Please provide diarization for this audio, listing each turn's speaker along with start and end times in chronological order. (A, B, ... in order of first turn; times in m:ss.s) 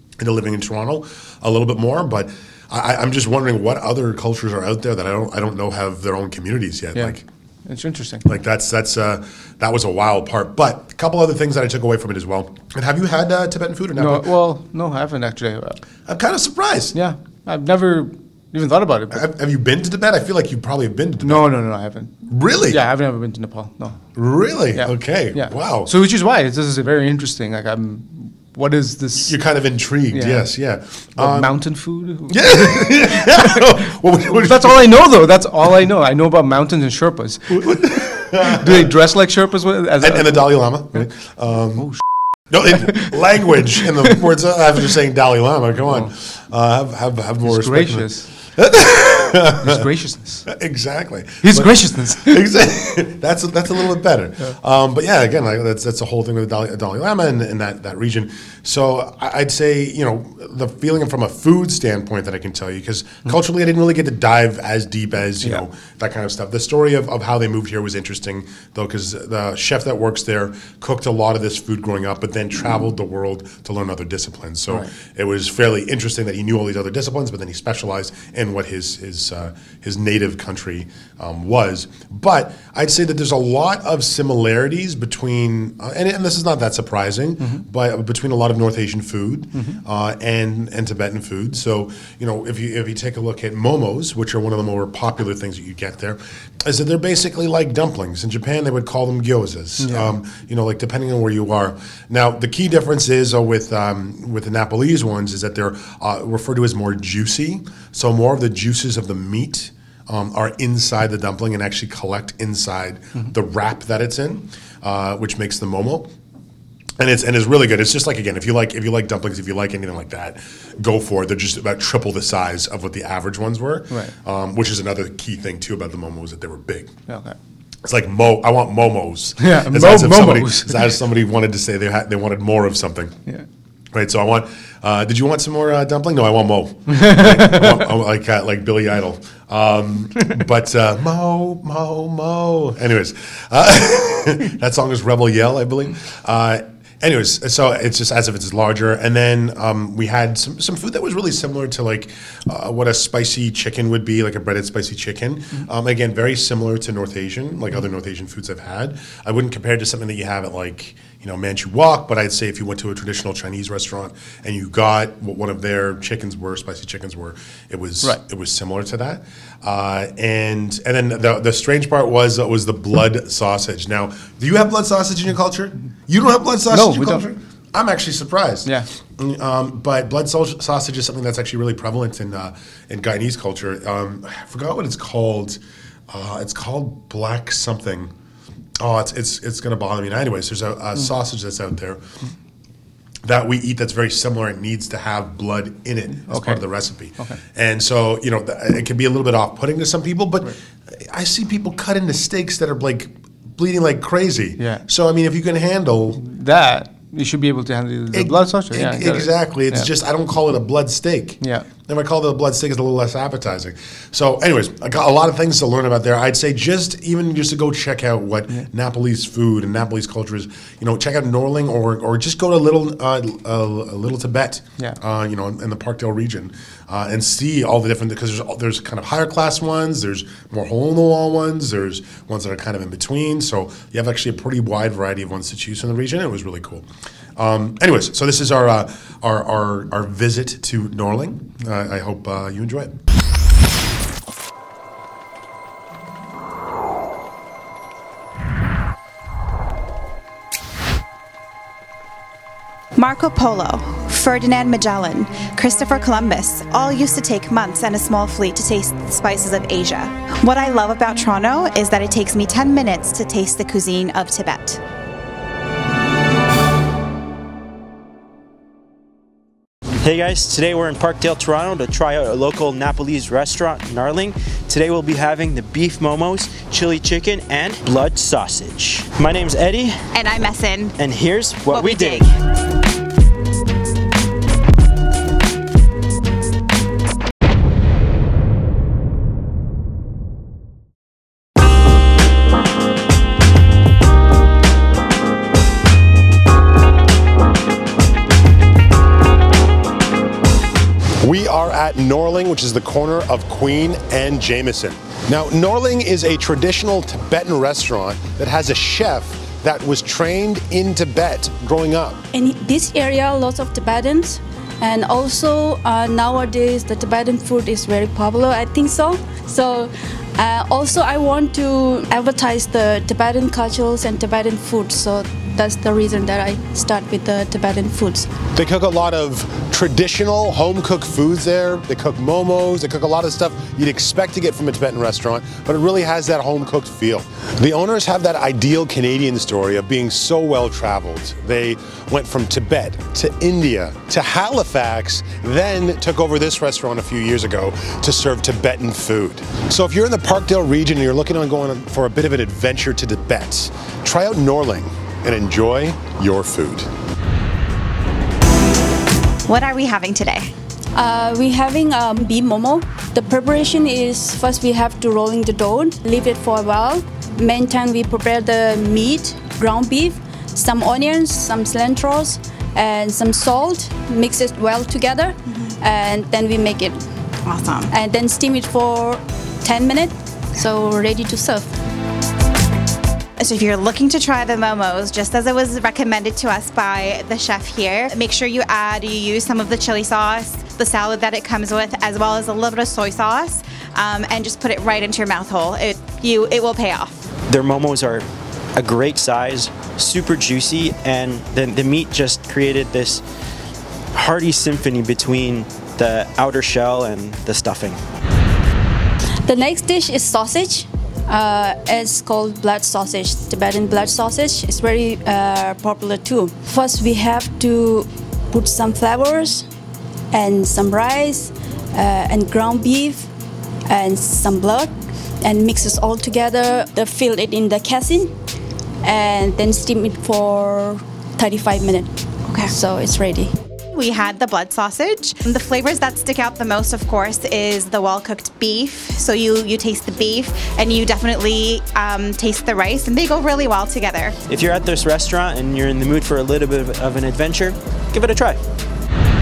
0:00.2-0:07.2 A
0:06.9-0:08.2 B
0:08.2-0:14.3 A
0:14.0-0:15.8 B
0:16.0-0:17.0 A
0:16.9-0:19.2 B
0:19.1-0:21.5 A
0:21.2-0:22.1 B
0:22.3-0:22.8 A
0:22.7-0:24.0 B
0:24.1-0:25.9 A
0:24.7-0:29.4 B
0:29.2-0:31.6 A
0:30.1-0:30.5 B
0:31.2-0:33.8 B
0:32.3-0:35.1 A
0:34.3-0:41.0 B
0:37.5-0:38.9 A
0:40.0-0:41.9 A
0:42.5-0:49.9 A
0:42.7-0:44.1 B
0:45.8-0:46.1 B
0:47.4-0:48.3 B
0:49.5-0:50.5 B
0:50.5-1:56.1 A
0:51.4-0:52.4 B
1:29.5-1:29.8 B
1:39.8-1:40.1 B
1:57.0-2:06.9 A
2:07.1-2:07.4 B
2:07.8-2:13.2 A
2:09.4-2:10.9 B
2:13.9-3:08.1 A
2:16.9-2:17.9 B
2:56.7-2:57.2 B
3:08.8-3:12.0 A
3:13.2-3:26.2 A
3:16.3-3:16.6 B
3:24.6-3:24.8 B
3:26.2-3:29.9 B
3:28.1-4:03.0 A
3:31.4-3:31.7 B
4:13.0-4:24.8 C
4:30.0-4:40.1 D
4:40.1-4:41.0 C
4:41.0-4:42.3 D
4:41.7-4:42.3 C
5:01.2-5:12.2 A
5:12.3-5:28.4 E
5:28.5-5:56.9 A
5:59.5-6:00.5 C
6:00.9-6:17.0 E
6:17.4-6:17.9 C
6:17.9-6:21.7 E
6:23.4-6:37.2 C
6:37.5-6:38.2 D
6:38.8-6:43.2 D
6:44.1-6:48.0 D
6:49.4-6:59.6 E
7:00.3-7:03.3 E
7:03.9-7:08.3 E
7:09.0-7:13.5 E
7:12.5-7:12.7 C
7:13.9-7:24.4 C
7:24.5-7:28.6 D